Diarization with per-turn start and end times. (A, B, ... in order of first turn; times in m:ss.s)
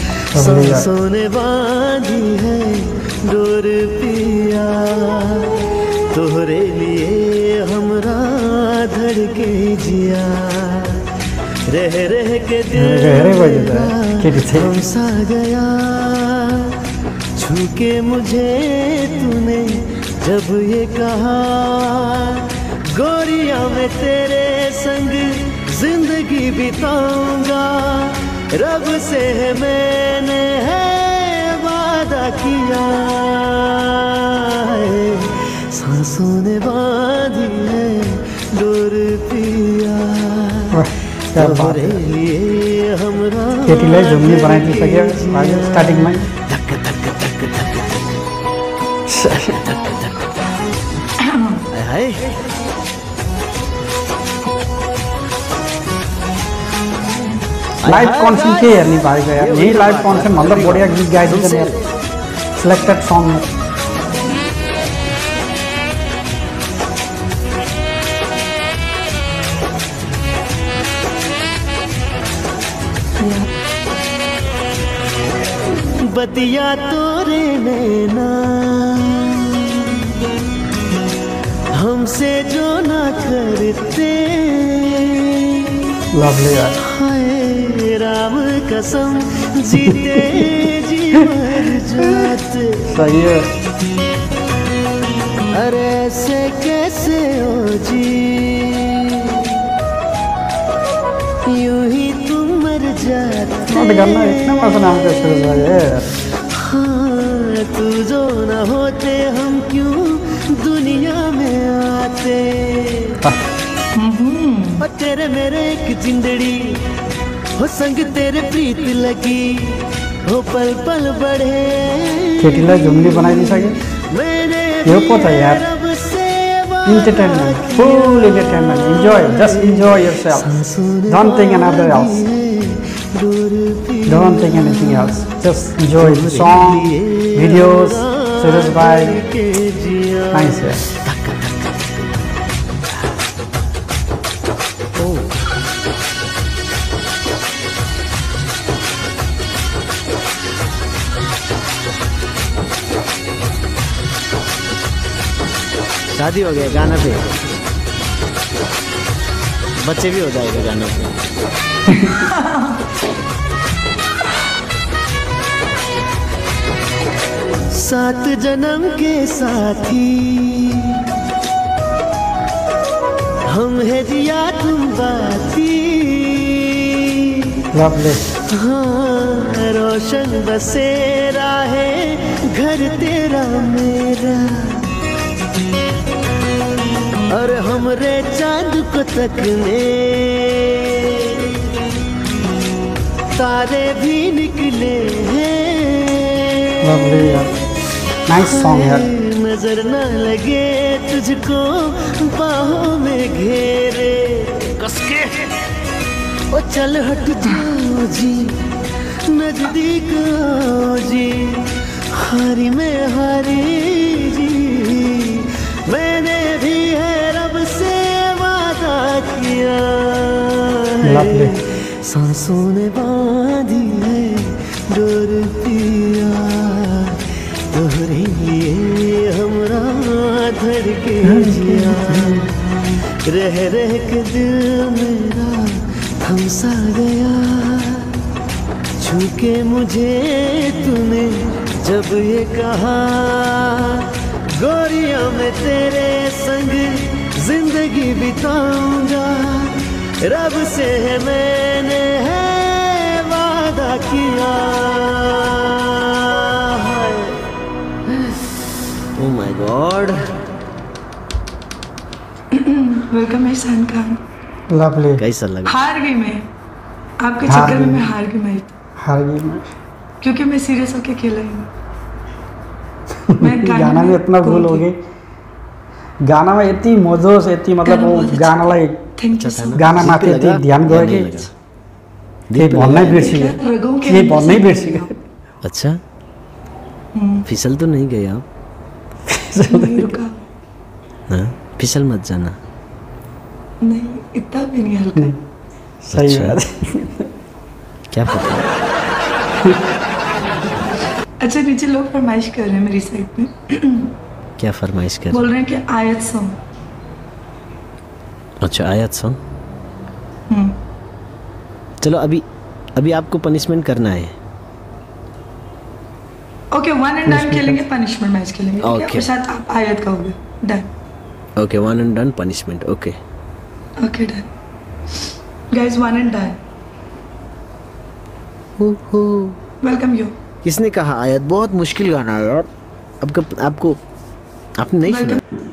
0:00.3-0:00.9 A
0:00.3-0:11.0 B
0:11.6-0:16.8 B
0:12.7-0:14.8 A
0:17.3-0:40.8 B
0:40.7-0:42.0 A
0:41.3-0:48.0 B
0:43.6-0:46.3 A
0:49.1-0:49.6 A
0:49.4-0:50.2 B
0:51.2-0:51.6 C
0:51.7-0:52.3 B
0:57.8-1:01.9 B
0:57.8-1:01.7 A
1:02.6-1:03.4 A
1:13.2-1:13.5 C
1:15.8-1:20.0 B
1:21.7-1:25.8 B
1:26.1-1:26.8 A
1:26.8-1:32.9 B
1:29.7-1:30.5 A
1:32.9-1:33.5 A
1:35.5-1:39.5 B
1:41.4-1:44.7 B
1:43.7-1:46.1 A
1:46.5-1:53.2 B
1:54.0-1:54.8 C
1:54.8-1:56.8 B
1:57.6-2:15.3 B
2:02.4-2:03.8 A
2:04.8-2:05.6 A
2:06.8-2:10.6 A
2:11.1-2:12.2 A
2:14.1-2:19.2 A
2:16.0-2:22.0 B
2:20.3-2:20.8 A
2:25.0-2:25.4 B
2:36.1-2:37.3 B
2:39.8-2:41.2 B
2:41.9-2:42.8 C
2:47.7-2:51.0 B
2:53.5-2:57.5 B
2:57.7-2:58.2 A
2:58.5-3:04.9 B
3:07.3-3:11.5 B
3:13.3-3:16.7 B
3:16.8-3:17.6 A
3:18.3-3:19.1 A
3:18.4-3:25.5 B
3:26.5-3:58.2 B
3:41.0-3:41.6 A
3:51.2-3:52.5 A
3:59.0-4:17.4 B
4:19.1-4:20.4 B
4:22.5-4:24.2 C
4:24.7-4:25.2 A
4:25.2-4:25.8 B
4:25.6-4:26.5 C
4:27.2-4:28.7 C
4:27.4-4:28.1 A
4:29.0-4:29.6 A
4:30.2-4:31.7 C
4:33.3-4:35.0 A
4:33.4-4:34.8 C
4:36.2-4:39.0 A
4:37.8-4:39.9 C
4:39.3-4:41.5 B
4:39.7-4:41.5 A
4:42.5-4:43.3 B
4:42.6-4:45.1 A
4:42.9-4:45.1 C
4:45.6-4:46.0 B
4:47.1-4:47.4 C
4:47.4-4:48.4 B
4:49.3-4:50.2 A
4:49.7-4:50.4 C
4:51.3-4:52.6 B
4:53.8-4:55.3 C
4:56.0-4:57.3 A
4:56.1-4:56.6 B
4:58.1-4:58.7 B
5:01.4-5:04.1 C
5:04.6-5:05.5 B
5:05.3-5:06.6 C
5:08.6-5:09.4 B
5:10.5-5:10.8 C
5:12.0-5:12.4 B
5:13.0-5:14.3 B
5:16.7-5:20.9 C
5:17.2-5:17.8 A
5:18.8-5:19.3 B
5:21.6-5:23.2 B
5:24.0-5:24.5 C
5:25.7-5:26.6 C
5:28.8-5:29.6 B
5:29.8-5:30.3 C
5:30.6-5:32.7 B
5:33.2-5:34.0 B
5:34.8-5:35.4 B
5:35.0-5:35.4 C